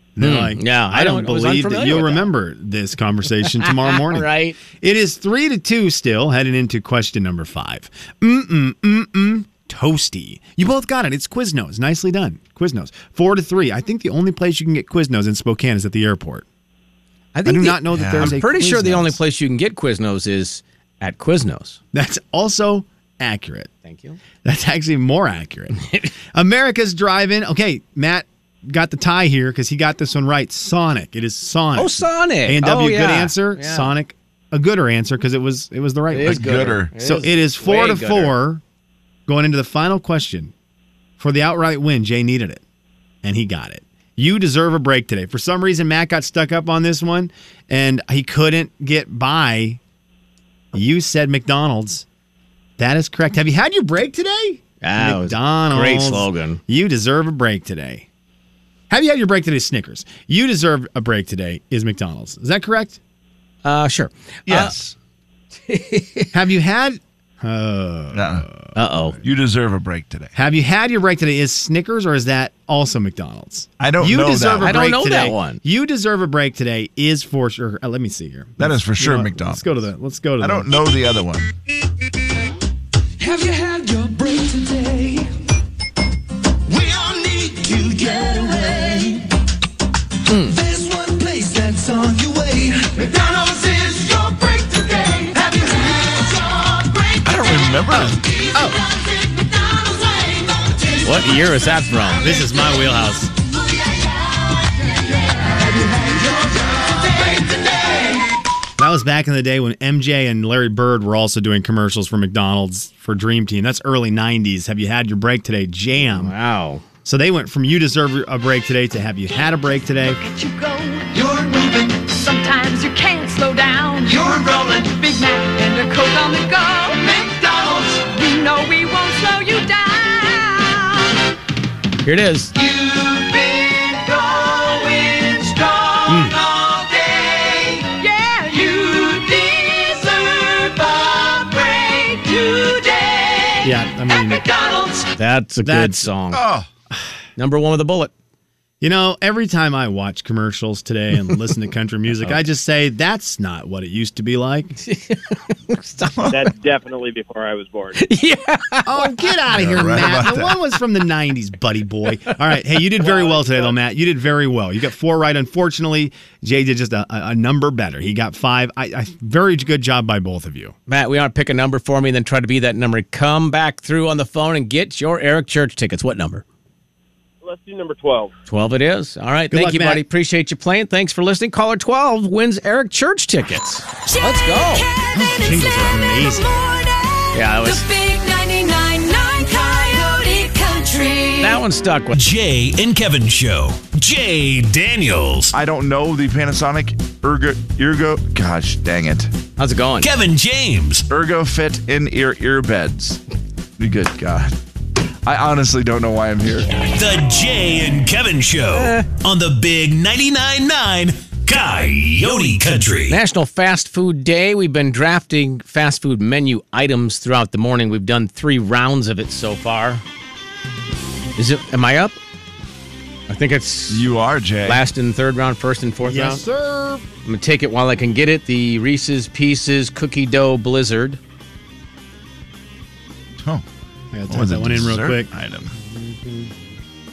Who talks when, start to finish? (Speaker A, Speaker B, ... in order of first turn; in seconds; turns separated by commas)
Speaker A: 0.2-16.4, Speaker B: 0.2-2.3, Speaker B: 3.6-4.6, Speaker B: 17.3-21.8, Speaker A: 17.4-19.2, Speaker C: 17.9-18.4, Speaker A: 21.9-23.7, Speaker B: 23.8-24.2, Speaker A: 24.4-38.6, Speaker B: 31.7-33.9, Speaker B: 36.1-38.4, Speaker C: 36.2-36.9, Speaker A: 39.3-40.5, Speaker A: 41.2-42.6, Speaker A: 43.2-49.8, Speaker A: 50.7-52.0, Speaker A: 52.8-58.1, Speaker B: 54.8-56.6, Speaker A: 58.9-63.0, Speaker B: 63.6-64.7, Speaker C: 64.5-64.9, Speaker B: 65.7-66.3, Speaker A: 66.3-68.5, Speaker C: 68.1-68.5, Speaker B: 68.7-69.2, Speaker C: 69.2-70.3, Speaker A: 70.3-80.7, Speaker C: 73.8-74.9, Speaker B: 74.6-75.6, Speaker C: 78.6-79.7, Speaker C: 80.4-81.5, Speaker D: 83.2-85.3, Speaker D: 86.7-89.3, Speaker B: 90.3-90.6, Speaker D: 90.5-97.2, Speaker C: 97.2-98.2, Speaker A: 97.9-98.8, Speaker D: 99.3-100.9, Speaker B: 101.0-102.2, Speaker A: 102.2-103.3, Speaker D: 105.9-106.6, Speaker A: 108.8-116.3, Speaker B: 116.0-116.8, Speaker A: 117.0-120.2, Speaker D: 120.2-131.1, Speaker B: 132.0-132.5, Speaker D: 132.6-145.1, Speaker A: 136.1-136.3, Speaker A: 143.6-144.4, Speaker B: 145.2-146.4, Speaker A: 145.6-146.1, Speaker C: 146.3-146.7, Speaker B: 147.4-148.1, Speaker A: 148.8-154.7, Speaker B: 154.8-156.4, Speaker C: 156.1-156.5, Speaker E: 156.3-158.0, Speaker B: 157.9-159.3, Speaker A: 158.8-170.7, Speaker C: 159.5-160.6, Speaker E: 163.1-163.7, Speaker B: 170.9-176.4, Speaker E: 177.4-178.3, Speaker B: 178.5-184.9, Speaker A: 179.5-180.0, Speaker A: 185.1-186.5, Speaker D: 186.5-191.6, Speaker B: 187.3-187.8, Speaker B: 191.4-192.2, Speaker F: 192.1-195.5, Speaker C: 195.5-199.3, Speaker B: 199.6-200.1, Speaker F: 200.0-201.0, Speaker C: 201.1-203.2, Speaker C: 203.8-204.6, Speaker C: 205.2-206.7, Speaker F: 206.9-213.2, Speaker B: 208.7-209.1, Speaker B: 213.1-220.0, Speaker B: 221.4-222.2, Speaker B: 223.3-224.1, Speaker C: 223.9-224.8, Speaker B: 224.6-226.4, Speaker A: 226.0-227.1, Speaker B: 227.2-231.2, Speaker C: 233.4-233.6, Speaker A: 234.1-236.5, Speaker C: 234.3-235.7